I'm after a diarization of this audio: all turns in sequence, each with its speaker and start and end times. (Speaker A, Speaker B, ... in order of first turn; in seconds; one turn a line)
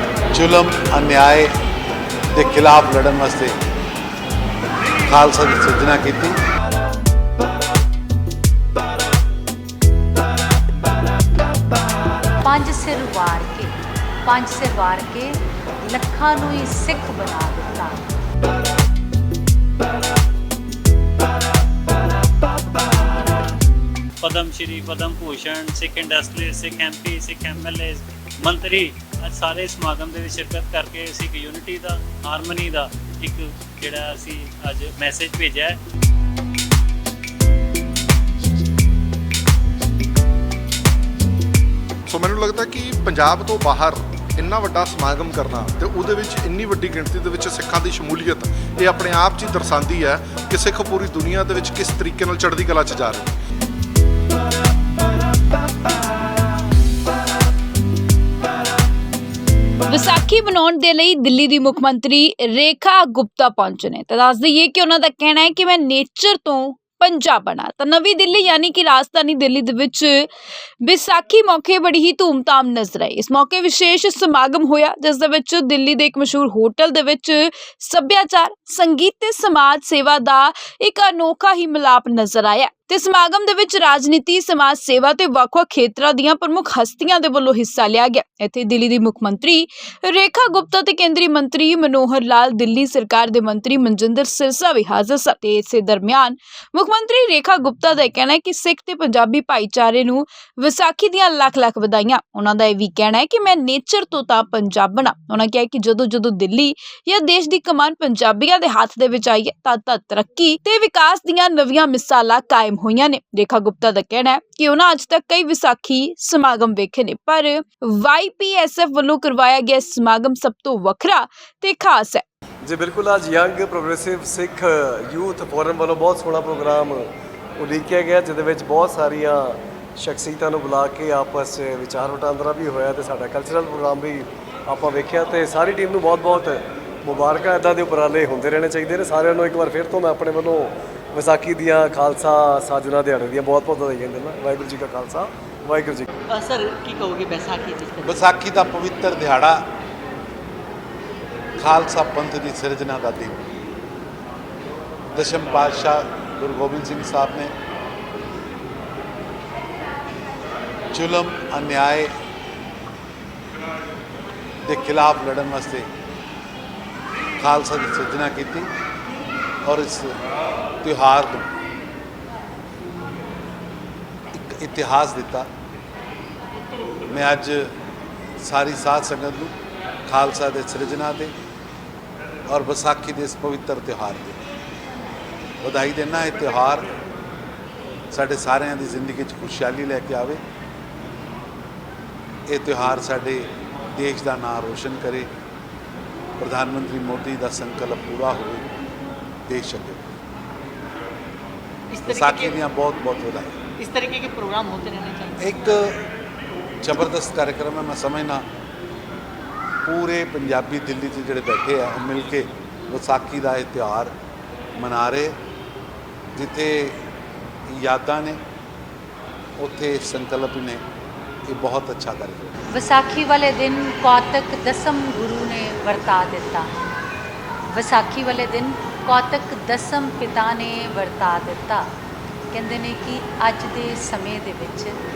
Speaker A: 0.3-1.5
Speaker A: 2.3-3.5
Speaker A: 5.0-6.3
Speaker B: 12.4-18.1
Speaker C: 24.2-35.8
Speaker D: 42.1-53.4
Speaker E: 59.9-70.3
Speaker E: 70.8-122.2
Speaker F: 122.6-146.1
Speaker G: 146.3-148.2
Speaker A: 148.0-149.6
Speaker A: 151.6-153.4
Speaker A: 155.1-157.5
Speaker A: 160.9-162.1
Speaker A: 164.6-165.9
Speaker A: 167.4-168.7
Speaker A: 169.6-170.1
Speaker A: 170.8-171.5
Speaker A: 174.3-175.5
Speaker A: 177.1-177.7
Speaker A: 178.4-179.5
Speaker A: 180.1-181.3
Speaker A: 182.5-184.4
Speaker A: 185.6-186.9
Speaker A: 188.1-190.4
Speaker A: 192.5-195.3
Speaker A: 196.4-198.7
Speaker A: 199.5-200.0
Speaker G: 201.9-202.6
Speaker A: 202.0-203.6
Speaker G: 203.8-205.5
Speaker A: 205.4-206.1
Speaker A: 206.8-208.4
Speaker A: 209.8-214.1
Speaker A: 214.8-215.3
Speaker A: 216.3-217.0
Speaker A: 217.7-218.4
Speaker A: 219.6-220.8
Speaker A: 221.5-222.6
Speaker B: 222.7-226.7
Speaker B: 227.7-231.9
Speaker B: 232.5-235.0